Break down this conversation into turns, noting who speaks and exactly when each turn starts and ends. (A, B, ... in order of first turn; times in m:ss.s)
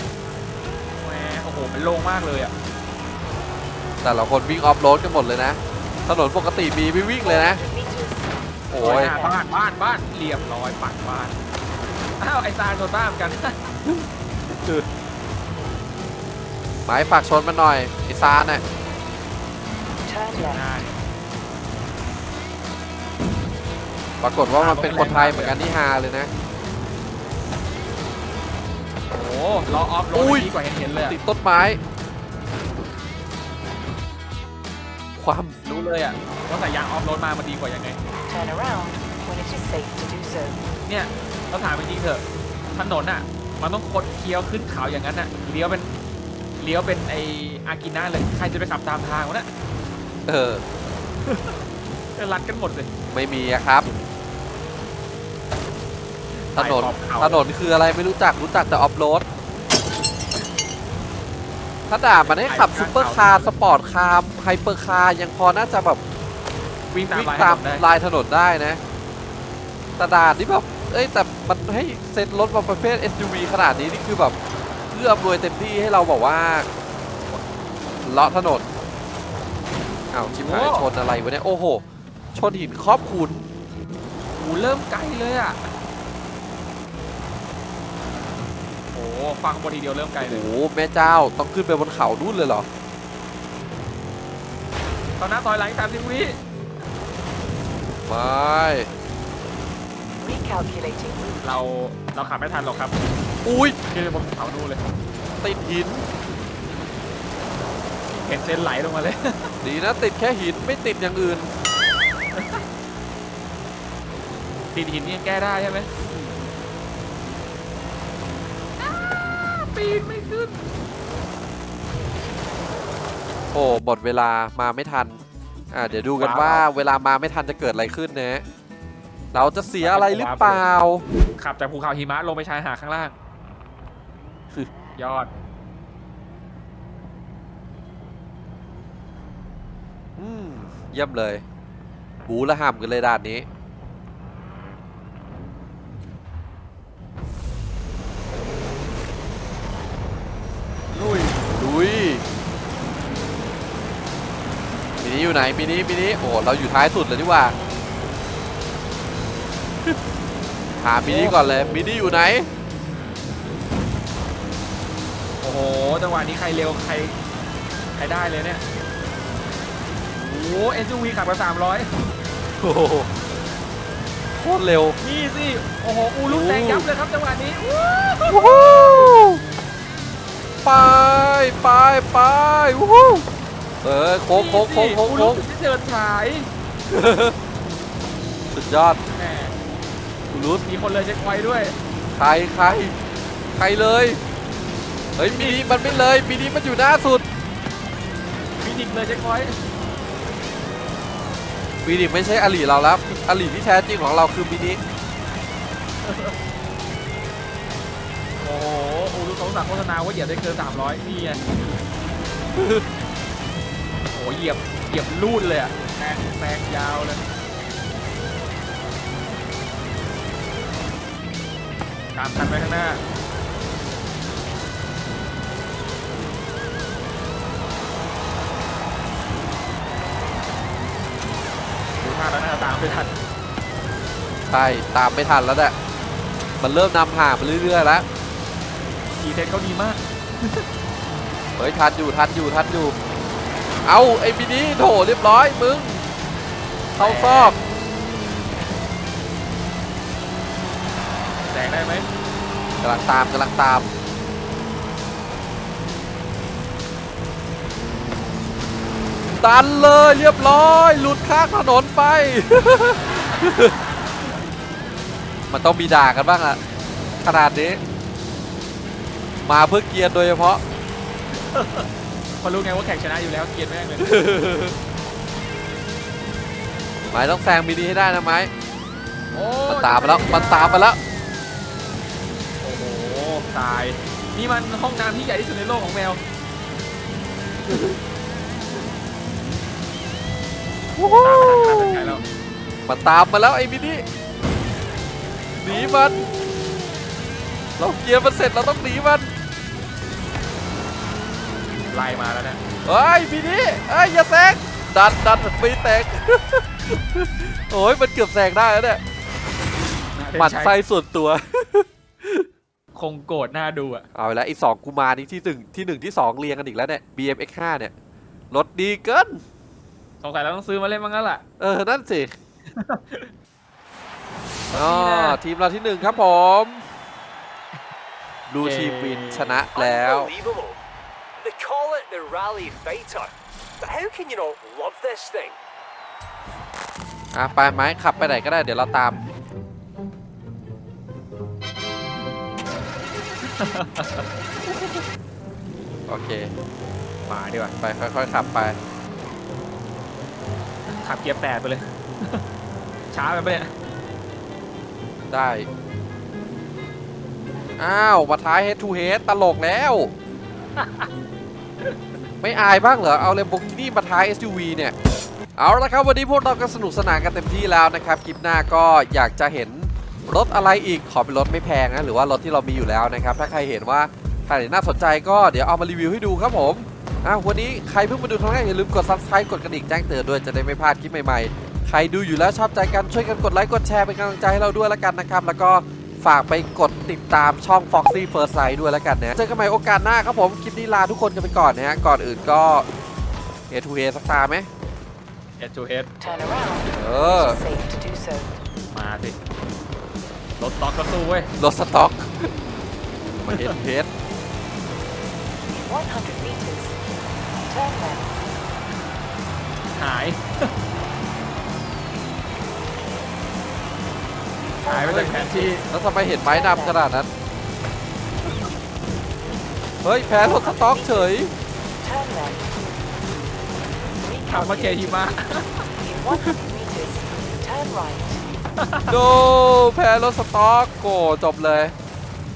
0:01.0-0:02.5 A
0:04.0-0:07.6 B
0:07.2-0:09.4 C
0:08.7-0:09.2 B
0:08.8-0:11.4 A
0:12.2-0:13.6 A
0:16.9-0:18.6 B
0:20.0-0:20.6 C
0:20.5-0:21.0 A
0:24.2-0:26.3 B
0:24.6-0:25.6 A
0:29.1-0:31.2 A
0:30.1-0:31.8 B
0:35.2-0:35.6 B
0:35.6-0:38.0 A
0:38.3-0:40.7 C
0:40.9-0:42.2 A
0:42.8-0:45.9 A
0:46.6-0:49.5 A
0:50.3-0:50.6 B
0:51.2-0:51.6 A
0:52.2-0:52.9 A
0:53.1-0:53.9 B
0:56.4-0:57.4 A
0:56.6-0:59.2 B
1:01.9-1:06.0 B
1:02.2-1:03.5 A
1:06.9-1:07.8 A
1:07.1-1:08.8 B
1:10.0-1:14.4 B
1:14.9-1:16.7 B
1:18.0-1:18.7 B
1:20.1-1:21.8 B
1:20.4-1:20.9 A
1:22.4-1:23.5 B
1:24.4-1:25.7 A
1:28.9-1:30.4 A
1:30.2-1:32.7 B
1:35.2-1:36.4 A
1:38.1-1:38.9 B
1:40.2-1:41.6 C
1:41.4-1:43.0 A
1:43.4-1:43.8 B
1:43.9-1:44.8 A
1:45.4-1:46.1 B
1:48.1-1:49.6 A
1:49.6-1:51.5 B
1:52.3-1:52.6 A
1:54.7-1:55.9 A
1:56.0-1:56.4 B
1:58.8-2:00.6 A
2:03.5-2:05.2 B
2:05.7-2:08.4 B
2:06.1-2:06.6 A
2:09.3-2:11.0 B
2:09.8-2:10.6 A
2:11.4-2:13.2 A
2:15.0-2:15.3 A
2:20.2-2:21.4 B
2:22.3-2:23.5 B
2:30.9-2:31.4 A
2:31.6-2:32.2 B
2:35.0-2:37.6 B
2:40.8-2:42.5 B
2:41.1-2:42.2 A
2:45.4-2:47.2 A
2:48.0-2:48.6 A
2:50.2-2:51.9 A
2:52.6-2:53.1 B
2:54.4-2:55.0 B
2:55.0-2:59.1 A
2:56.3-2:56.9 B
2:58.3-2:59.4 B
3:00.6-3:03.3 B
3:03.8-3:05.4 B
3:04.3-3:06.5 A
3:06.9-3:07.4 B
3:08.5-3:09.0 B
3:09.1-3:09.6 A
3:10.3-3:10.6 B
3:10.6-3:11.8 A
3:12.2-3:13.0 B
3:13.6-3:14.2 B
3:15.2-3:17.3 B
3:15.2-3:16.0 A
3:18.6-3:19.6 A
3:21.8-3:24.8 B
3:26.0-3:26.4 A
3:28.4-3:31.4 A
3:32.6-3:32.8 B
3:34.1-3:37.3 A
3:42.2-3:43.0 A
3:52.0-3:53.1 A
3:54.5-3:55.8 B
3:56.6-3:58.1 B
3:59.2-4:00.7 A
4:01.6-4:03.0 B
4:03.8-4:06.0 B
4:07.0-4:07.6 B
4:07.0-4:07.6 A
4:11.5-4:12.1 A
4:12.8-4:13.9 B
4:19.4-4:23.8 B
4:25.5-4:26.6 B
4:27.2-4:27.8 B
4:29.4-4:30.6 B
4:31.4-4:31.9 A
4:32.4-4:34.2 A
4:34.0-4:34.8 B
4:37.1-4:38.5 B
4:39.3-4:40.9 A
4:39.7-4:41.0 B
4:42.6-4:46.2 A
4:47.7-4:48.0 B
4:51.0-4:52.1 B
4:51.2-4:52.2 A
4:52.9-4:54.0 B
4:55.6-4:56.2 B
4:57.8-4:59.3 B
5:01.9-5:02.6 A
5:02.8-5:09.0 B
5:10.2-5:10.7 A
5:10.4-5:12.5 B
5:13.0-5:14.1 A
5:14.2-5:17.9 B
5:18.5-5:19.4 B
5:20.2-5:21.4 A
5:21.6-5:22.3 B
5:22.7-5:23.3 A
5:24.7-5:25.4 A
5:24.7-5:26.9 B
5:28.5-5:30.3 B
5:28.6-5:29.6 A
5:29.8-5:30.8 D
5:31.4-5:35.6 D
5:37.3-5:39.2 B
5:43.4-5:44.3 A
5:44.6-5:45.0 B
5:46.1-5:46.5 B
5:47.2-5:47.7 A
5:47.8-5:48.8 B
5:50.9-5:52.4 A
5:53.1-5:53.7 A
5:55.3-5:55.7 B
5:57.8-6:00.1 B
6:00.8-6:01.1 A
6:02.4-6:04.9 B
6:05.6-6:32.9 B
6:33.7-6:34.7 B
6:35.6-6:36.1 A
6:36.2-6:38.6 C
6:36.9-6:37.6 B
6:38.9-6:39.4 A
6:40.6-6:41.5 A
6:41.6-6:42.5 B
6:43.4-6:44.1 B
6:43.5-6:43.8 A
6:45.7-6:47.0 C
6:47.6-6:48.4 C
6:50.0-6:50.7 A
6:54.6-6:57.0 C
6:54.9-6:55.8 A
6:55.0-6:57.3 B
7:00.0-7:01.5 B
7:00.4-7:01.3 C
7:02.0-7:02.7 C
7:04.2-7:05.4 C
7:04.5-7:05.9 A
7:06.0-7:08.5 C
7:08.8-7:09.1 A
7:09.1-7:12.0 B